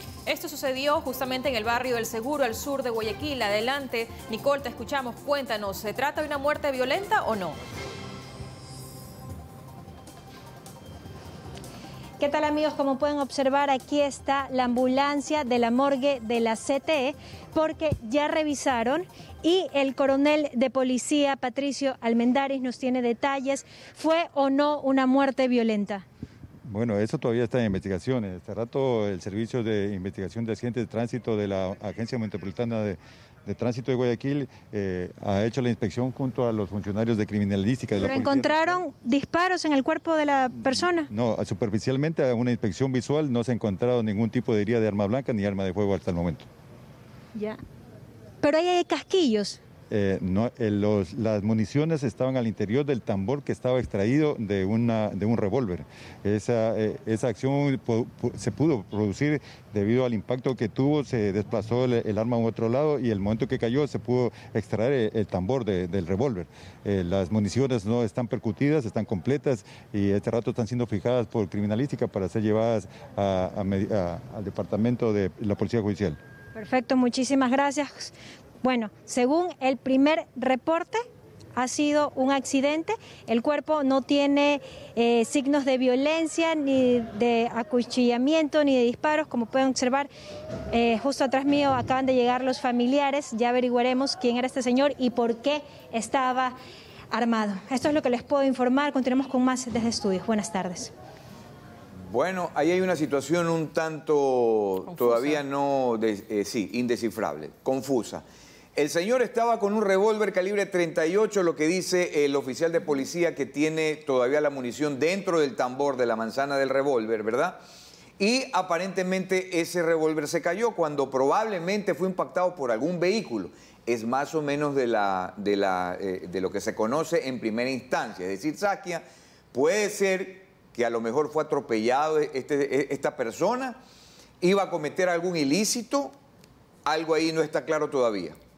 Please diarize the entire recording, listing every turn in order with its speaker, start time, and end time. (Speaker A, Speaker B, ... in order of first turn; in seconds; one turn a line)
Speaker A: 0.2-7.6
Speaker B: 12.2-26.0
Speaker C: 26.6-38.8
Speaker B: 38.0-41.1
Speaker C: 40.6-46.5
Speaker B: 48.4-49.6
Speaker C: 49.9-76.2
Speaker B: 76.5-81.0
Speaker B: 81.5-90.1
Speaker B: 90.7-96.5
Speaker B: 97.1-100.9
Speaker D: 102.0-108.2
Speaker A: 104.9-105.4
Speaker D: 108.8-117.6
Speaker D: 118.2-133.8
Speaker D: 134.4-136.1
Speaker D: 136.8-138.4